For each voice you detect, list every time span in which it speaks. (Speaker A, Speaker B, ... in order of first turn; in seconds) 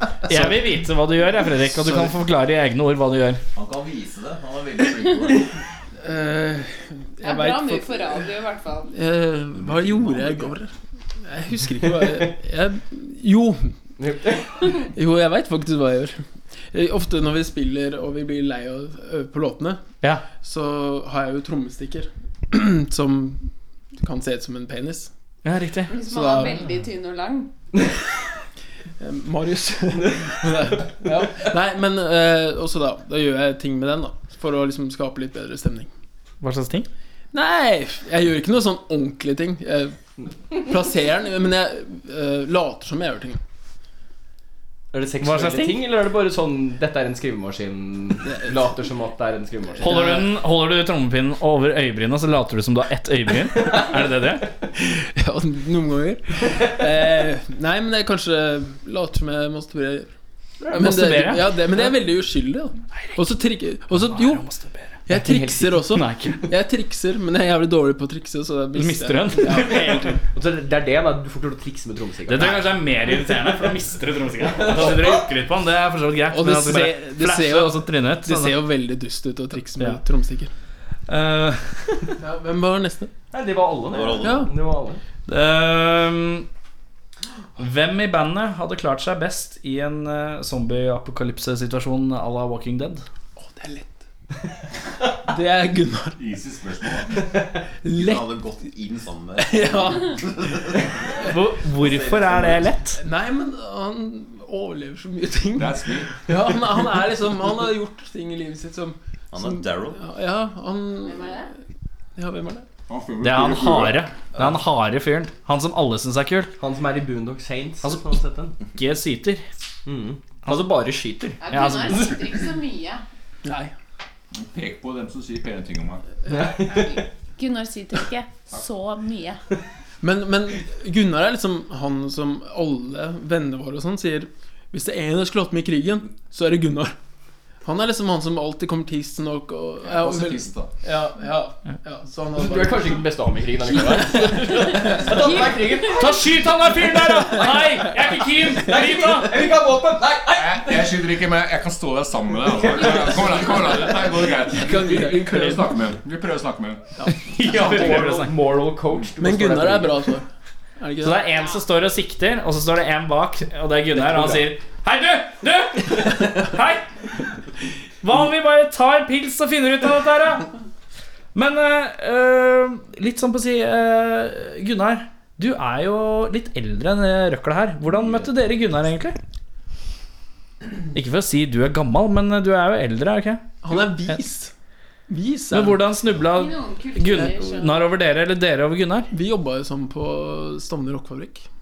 Speaker A: 0.2-3.4, 25.4-25.9, 36.4-36.9, 45.2-45.8, 49.8-54.5, 60.8-61.6, 62.9-63.3, 63.9-65.0, 65.8-66.5, 68.7-70.2, 72.3-78.6, 81.1-82.2, 85.3-86.5, 87.6-93.0, 101.2-103.0, 113.2-116.5, 118.7-119.4, 121.5-122.2, 145.9-149.4, 157.2-158.4, 161.0-166.9, 168.0-170.5, 171.3-179.2, 180.9-184.2, 185.5-189.1
Speaker B: 3.5-5.5, 83.9-84.5, 97.9-100.9, 101.7-102.7, 109.3-110.0
Speaker C: 6.0-8.2, 8.9-13.7, 14.6-23.5, 24.0-25.1, 26.0-26.6, 29.0-35.9, 37.3-40.0, 40.5-43.4, 48.2-48.6, 49.9-50.3, 54.8-60.1, 60.7-64.5, 65.1-70.2, 76.3-80.5, 82.2-83.1, 84.2-84.5, 93.4-94.0, 95.3-96.2, 97.8-98.5, 99.4-100.5, 103.0-111.5, 112.2-112.7, 123.4-123.7, 130.0-136.9, 137.6-143.1, 143.8-145.1, 154.5-155.7, 159.2-160.2, 160.8-161.2, 183.6-184.5, 185.1-185.9, 189.1-191.5
Speaker D: 7.2-8.9, 25.9-27.5, 111.0-111.5, 121.4-123.0, 126.6-129.4, 145.2-146.1, 186.2-187.9
Speaker E: 14.0-14.7, 44.9-50.0, 65.1-65.7, 70.3-72.7, 83.3-85.0, 116.6-118.5, 119.9-121.4, 126.3-127.0, 142.4-146.2, 148.4-151.0, 152.6-153.8, 157.4-160.1
Speaker F: 96.2-97.2, 105.5-106.1, 112.9-114.1, 124.3-126.0, 139.8-140.8, 150.3-156.9